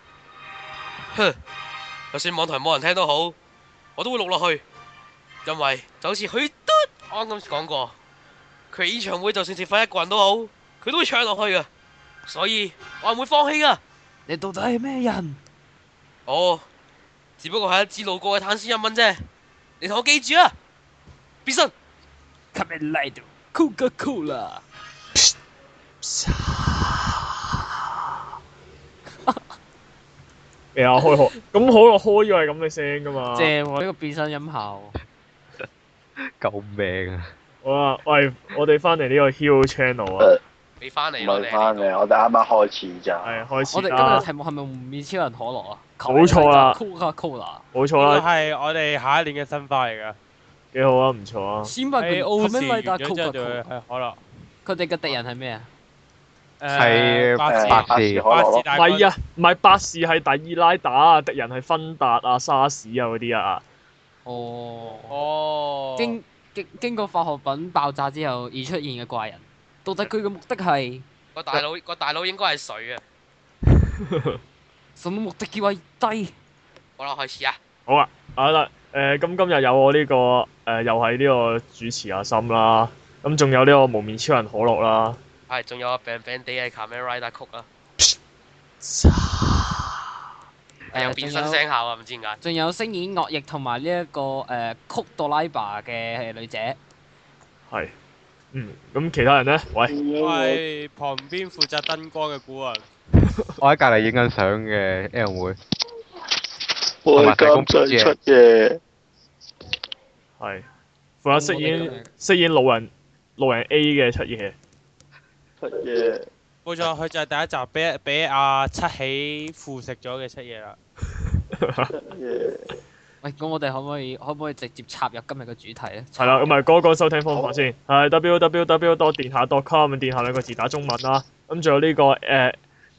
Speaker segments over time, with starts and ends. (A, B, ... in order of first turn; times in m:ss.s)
0:01.1-0:01.4 A
0:02.1-0:03.4 A
0:04.0-0:04.6 A
0:05.4-0:08.0 A
0:08.7-0:11.7 A
0:12.3-0:13.8 A
0:14.3-0:15.4 B
0:16.3-0:16.6 A
0:17.4-0:19.3 A
0:19.8-0:20.5 A
0:21.4-0:21.7 A
0:22.5-0:24.6 B
0:26.0-0:27.9 C
0:29.2-0:29.5 B
0:30.7-0:33.5 C
0:33.3-0:34.9 B
0:36.4-0:37.3 D
0:37.6-0:40.3 C
0:40.8-0:41.9 A
0:41.2-0:43.4 E
0:43.2-0:44.3 C
0:43.7-0:47.6 B
0:46.0-0:46.8 C
0:47.7-0:48.2 C
0:48.0-0:50.2 F
0:50.7-0:51.7 C
0:51.6-0:53.6 B
0:52.0-0:54.2 F
0:54.6-0:55.7 B
0:56.6-0:59.1 F
0:56.7-0:58.2 D
0:57.4-0:58.7 E
0:58.7-1:03.6 C
1:04.2-1:05.2 B
1:05.1-1:06.2 A
1:06.0-1:11.0 B
1:11.3-1:13.0 A
1:13.8-1:14.4 C
1:15.0-1:16.3 B
1:17.0-1:17.6 A
1:17.9-1:25.2 C
1:25.5-1:27.7 A
1:28.8-1:30.1 C
1:30.9-1:31.6 B
1:30.9-1:32.4 A
1:32.4-1:36.8 B
1:38.5-1:39.9 C
1:39.9-1:40.6 E
1:40.2-1:42.8 F
1:43.6-1:45.6 D
1:47.0-1:48.8 E
1:47.2-1:48.2 D
1:50.4-1:50.6 C
1:51.2-1:54.5 C
1:51.3-1:52.1 B
1:55.6-1:56.2 E
1:56.6-2:00.8 F
2:01.6-2:01.9 C
2:01.9-2:02.7 E
2:03.2-2:06.5 B
2:06.2-2:12.6 C
2:07.3-2:07.6 E